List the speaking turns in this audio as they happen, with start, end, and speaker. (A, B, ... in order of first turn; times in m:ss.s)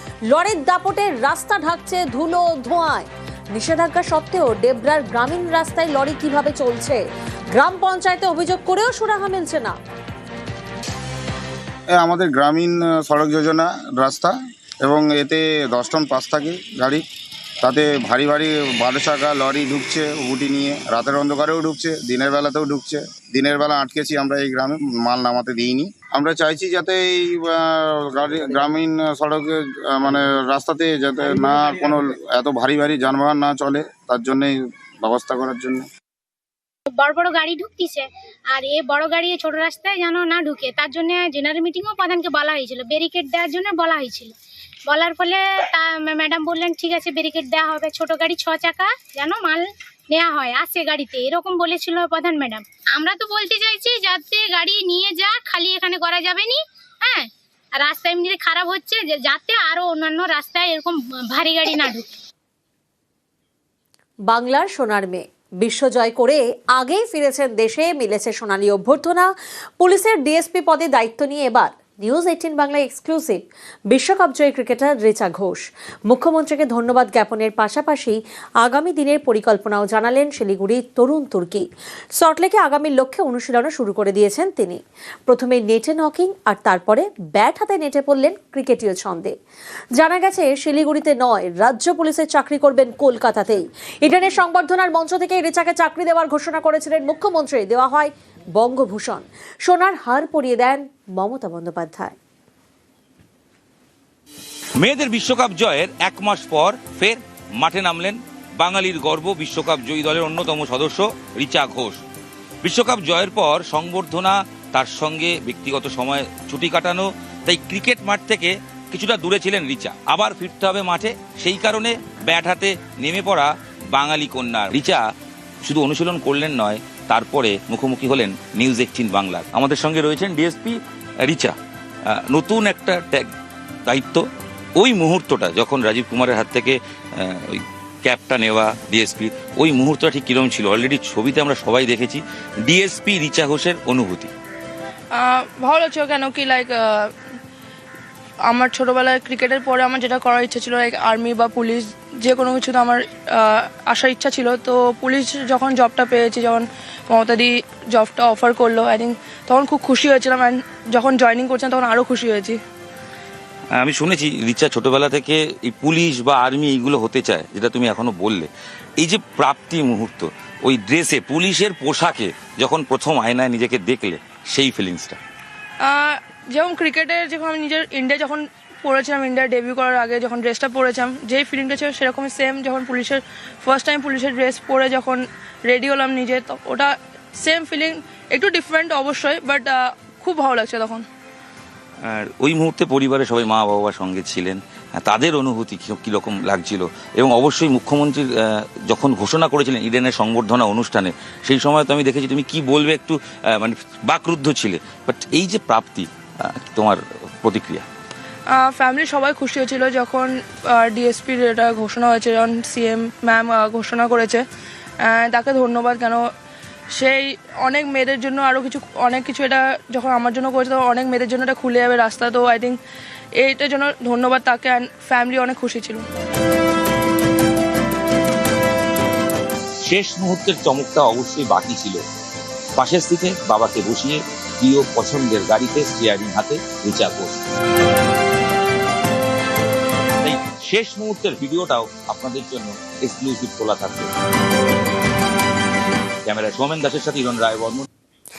0:00.3-0:07.0 A
0:07.5-0:09.8 A
0:12.0-0:17.0 B
0:17.6-0:34.5 B
0:35.0-0:35.8 B
0:36.9-0:44.3 C
0:44.9-0:57.2 C
0:57.8-1:02.1 C
1:04.3-1:21.6 A
1:22.2-1:29.3 A
1:30.0-1:42.2 A
1:44.8-1:52.0 D
1:52.6-2:05.0 D
2:05.6-2:11.6 D
2:12.1-2:13.3 D
2:13.8-2:14.2 D
2:14.8-2:24.3 D
2:25.1-2:27.1 E
2:28.4-2:42.6 E
2:43.8-2:55.2 D
2:55.8-3:11.0 E
3:12.0-3:27.8 D
3:28.5-3:34.4 E
3:35.0-3:36.3 E
3:36.9-3:42.8 E
3:43.4-3:46.0 E
3:49.9-3:52.0 D
3:52.8-3:57.4 D
4:00.2-4:04.1 D
4:06.3-4:07.8 D